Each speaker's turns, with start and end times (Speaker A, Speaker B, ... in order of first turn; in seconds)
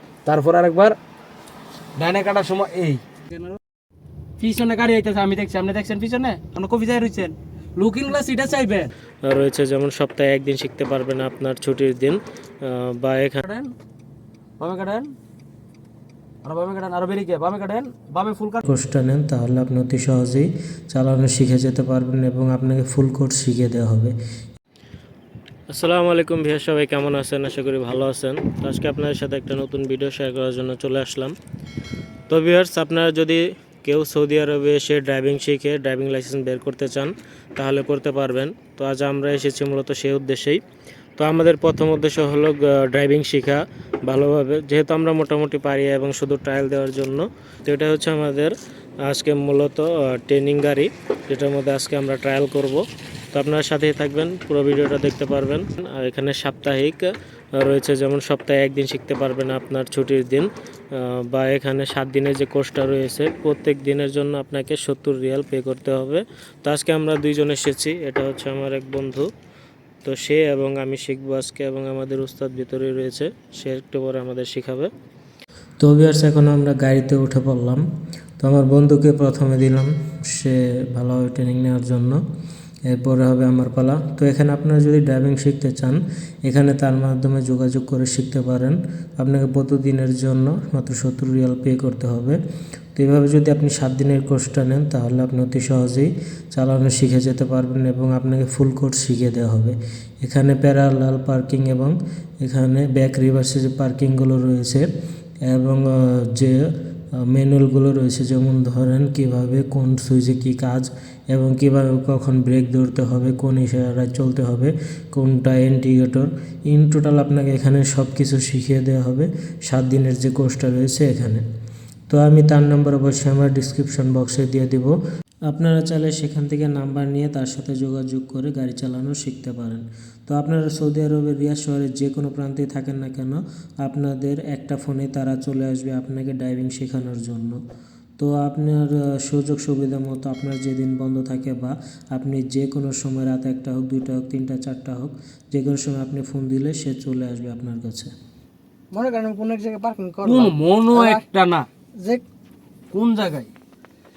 Speaker A: 0.3-1.0, 2.0-3.6, 4.4-8.9, 13.4-13.7, 14.6-15.1, 16.4-18.6, 150.2-151.7, 152.9-153.5
Speaker B: 9.2-13.4, 18.6-24.2, 25.7-31.4, 32.3-40.6, 41.2-69.3, 70.0-74.9, 75.8-77.8, 78.4-82.2, 82.9-92.4, 93.0-104.9, 105.5-121.4, 122.1-125.0, 125.5-137.6, 138.2-148.1
Speaker C: 148.9-151.2, 152.0-152.2